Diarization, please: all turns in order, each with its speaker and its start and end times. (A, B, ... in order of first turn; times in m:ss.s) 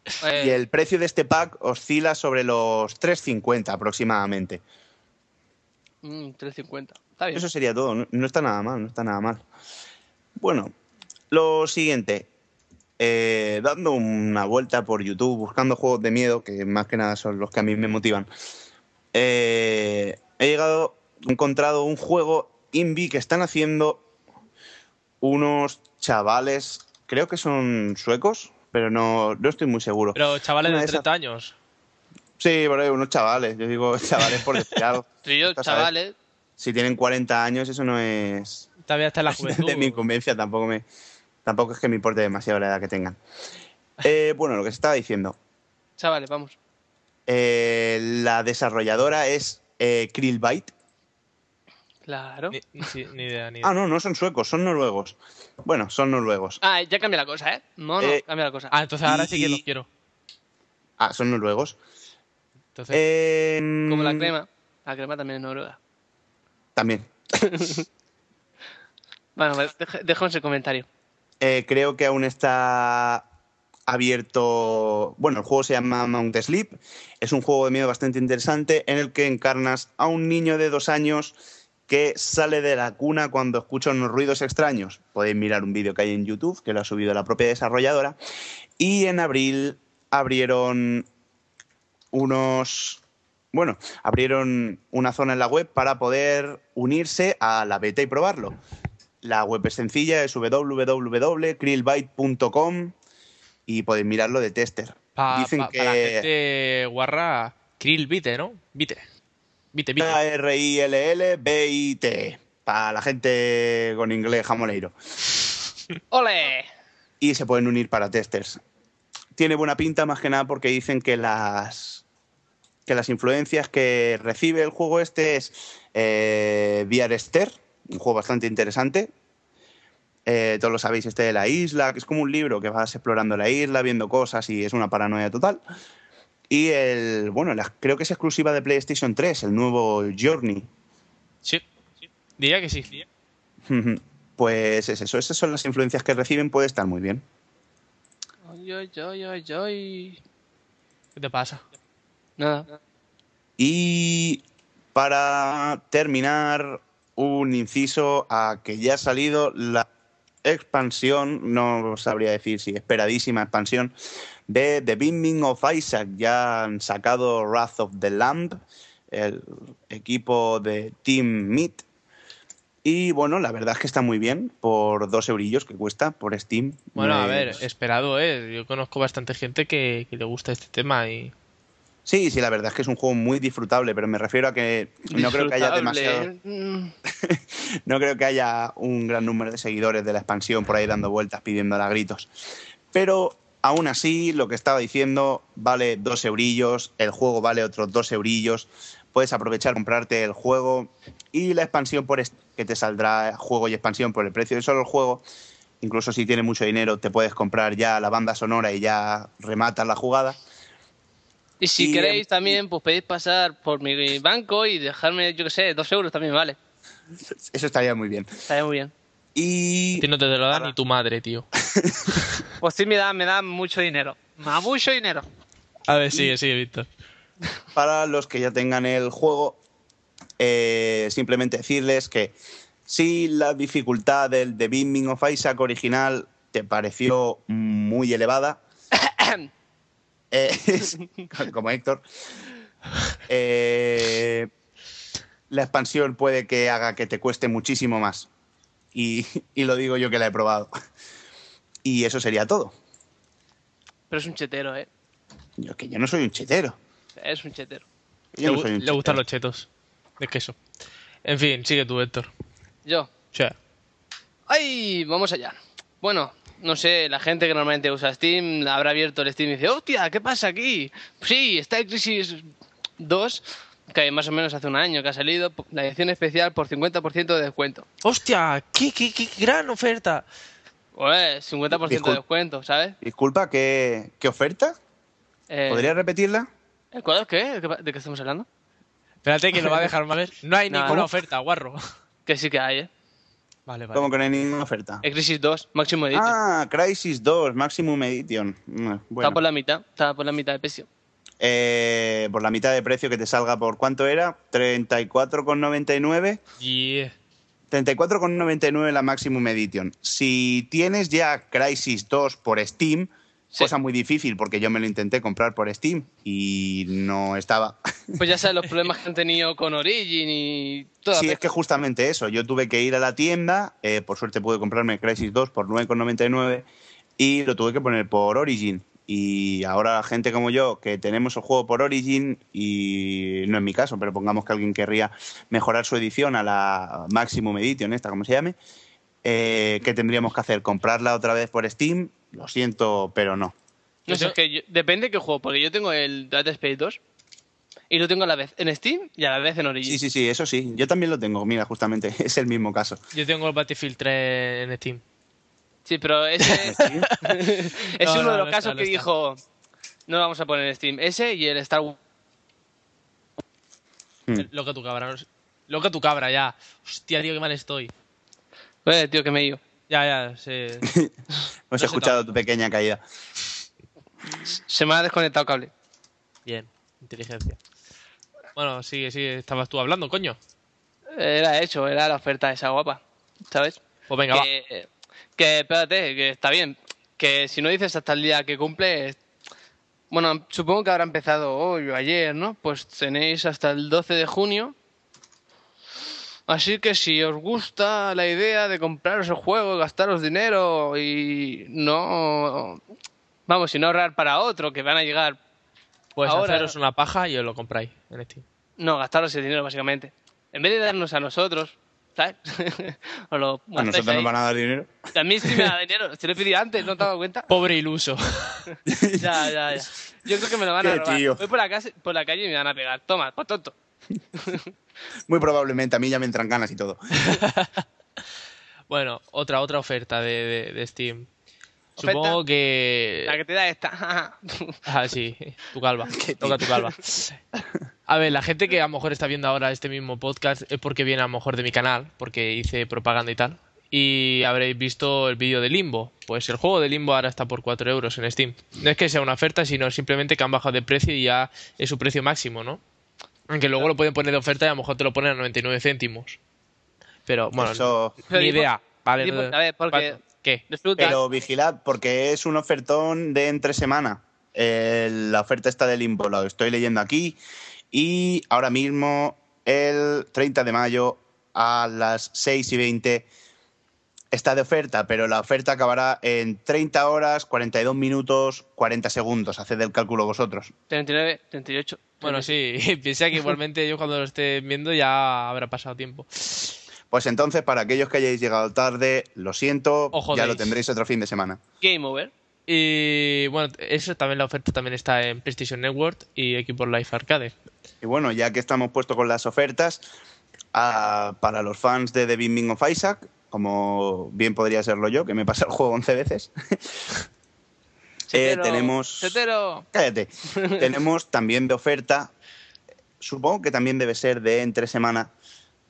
0:00.2-0:00.6 A
0:00.3-0:04.6 B
0:06.0-0:07.4 A
0:07.3-0:09.4 B
0:10.4-0:10.7 B
0:11.3-0:12.3 B
0:13.0-0:18.3 B
0:19.1-0:24.0 B
0:25.2-0:31.0 B
0:30.1-0:31.5 C
0:32.4-0:35.9 B
0:35.2-0:36.1 A
0:36.6-0:38.7 B
0:38.8-0:40.0 C
0:39.3-0:40.8 B
0:41.4-0:43.2 B
0:44.0-0:45.4 B
0:46.0-0:46.6 A
0:47.3-0:50.7 B
0:52.0-0:52.6 A
0:52.5-0:53.7 C
0:53.6-0:56.6 B
0:56.6-0:58.7 A
0:58.7-0:59.9 C
0:59.0-0:59.6 B
1:01.0-1:01.8 B
1:02.7-1:03.0 C
1:02.9-1:04.3 B
1:03.9-1:05.8 A
1:06.8-1:07.1 B
1:07.4-1:07.8 A
1:09.4-1:10.9 A
1:11.4-1:13.2 B
1:13.9-1:21.4 B
1:21.9-1:28.2 B
1:28.8-1:31.1 B
1:32.1-1:33.0 B
1:33.5-1:38.6 B
1:39.2-1:42.9 B
1:43.7-1:46.3 B
1:45.2-1:49.0 C
1:49.7-1:50.2 C
1:50.0-1:54.9 B
1:56.1-1:56.7 A
1:57.2-1:58.6 B
1:59.4-2:02.0 B
2:02.9-2:09.1 B
2:10.2-2:15.6 B
2:16.5-2:20.7 B
2:22.4-2:23.0 C
2:23.7-2:27.2 B
2:28.4-2:30.2 A
2:31.2-2:31.6 C
2:32.4-2:32.7 A
2:33.6-2:34.4 B
2:34.9-2:39.9 B
2:40.4-2:43.9 B
2:44.5-2:48.6 B
2:49.1-2:51.8 B
2:52.8-2:57.6 B
2:57.0-3:01.3 C
3:02.0-3:06.3 B
3:05.1-3:06.9 A
3:07.1-3:12.3 B
3:12.9-3:25.2 B
3:25.8-3:30.4 B
3:31.6-3:36.6 A
3:31.8-3:32.6 B
3:37.3-3:38.4 B
3:38.5-3:38.9 A
3:39.3-3:40.7 B
3:40.0-3:41.5 C
3:41.6-3:42.2 B
3:42.6-3:45.2 A
3:45.9-3:46.8 C
3:47.7-3:49.6 B
3:50.4-3:52.3 B
3:52.9-3:58.6 B
3:58.9-3:59.5 A
4:00.3-4:02.0 B
4:03.3-4:04.5 B
4:05.5-4:08.3 B
4:08.9-4:10.7 B
4:11.8-4:12.7 B
4:14.1-4:14.9 A
4:15.6-4:16.8 B
4:17.2-4:17.8 A
4:18.3-4:19.2 B
4:18.4-4:19.7 C
4:20.2-4:20.5 C
4:21.2-4:22.3 C
4:22.8-4:23.1 A
4:24.5-4:32.5 A
4:33.0-4:37.8 A
4:38.0-4:40.2 C
4:40.9-4:43.0 A
4:41.7-4:42.2 B
4:43.0-4:44.8 B
4:45.5-4:45.9 A
4:45.7-4:46.5 B
4:46.9-4:48.5 A
4:49.2-4:51.8 C
4:50.7-4:51.1 A
4:52.2-4:52.9 A
4:53.7-4:54.1 C
4:53.9-4:55.0 B
4:55.0-4:56.4 A
4:56.1-4:59.4 B
4:59.2-5:00.9 A
5:01.4-5:06.4 B
5:06.6-5:07.1 C
5:07.7-5:18.2 B
5:18.2-5:21.4 A
5:21.1-5:26.6 B
5:27.2-5:38.5 B
5:39.2-5:43.5 B
5:44.1-5:47.0 A
5:44.1-5:44.3 C
5:47.9-5:50.0 A
5:49.8-5:53.0 B
5:53.1-5:55.0 C
5:55.8-5:59.4 A
5:56.7-5:57.1 B
5:56.8-5:59.0 C
6:00.1-6:02.0 A
6:04.3-6:07.9 C
6:08.8-6:09.6 A
6:09.9-6:10.9 C
6:10.8-6:11.1 B
6:11.7-6:13.0 B
6:11.8-6:12.3 C
6:14.4-6:15.7 A
6:16.4-6:17.6 C
6:18.6-6:20.4 C
6:21.1-6:23.8 A
6:24.1-6:24.5 C
6:24.3-6:29.2 A
6:30.1-6:34.7 A
6:36.5-6:42.8 A
6:43.5-6:45.4 A
6:46.2-6:48.4 C
6:46.2-6:46.7 A
6:48.8-6:54.3 A
6:53.8-6:55.7 B
6:55.1-6:57.5 A
6:57.5-6:58.6 C
6:58.8-6:59.8 B
6:59.2-7:03.7 A
7:00.8-7:01.4 B
7:04.4-7:04.7 A
7:05.3-7:07.2 B
7:07.2-7:07.7 C
7:08.9-7:11.3 C
7:12.0-7:12.4 A
7:12.0-7:13.4 C
7:13.2-7:14.8 A
7:14.8-7:17.4 C
7:16.2-7:16.7 B
7:18.1-7:32.8 C
7:33.5-7:36.4 C
7:37.3-7:40.6 C
7:37.6-7:38.2 B
7:38.3-7:38.7 A
7:39.2-7:40.2 A
7:40.7-7:41.2 A
7:41.0-7:47.4 B
7:47.9-7:53.3 B
7:54.3-8:00.7 B
8:00.9-8:02.5 A
8:02.2-8:06.8 C
8:07.1-8:11.6 B
8:10.1-8:10.7 C
8:11.8-8:12.3 A
8:12.7-8:17.5 C
8:18.0-8:20.0 B
8:20.7-8:27.0 B
8:28.3-8:29.8 A
8:28.3-8:29.4 B
8:29.9-8:32.3 B
8:30.5-8:30.8 A
8:33.2-8:35.3 B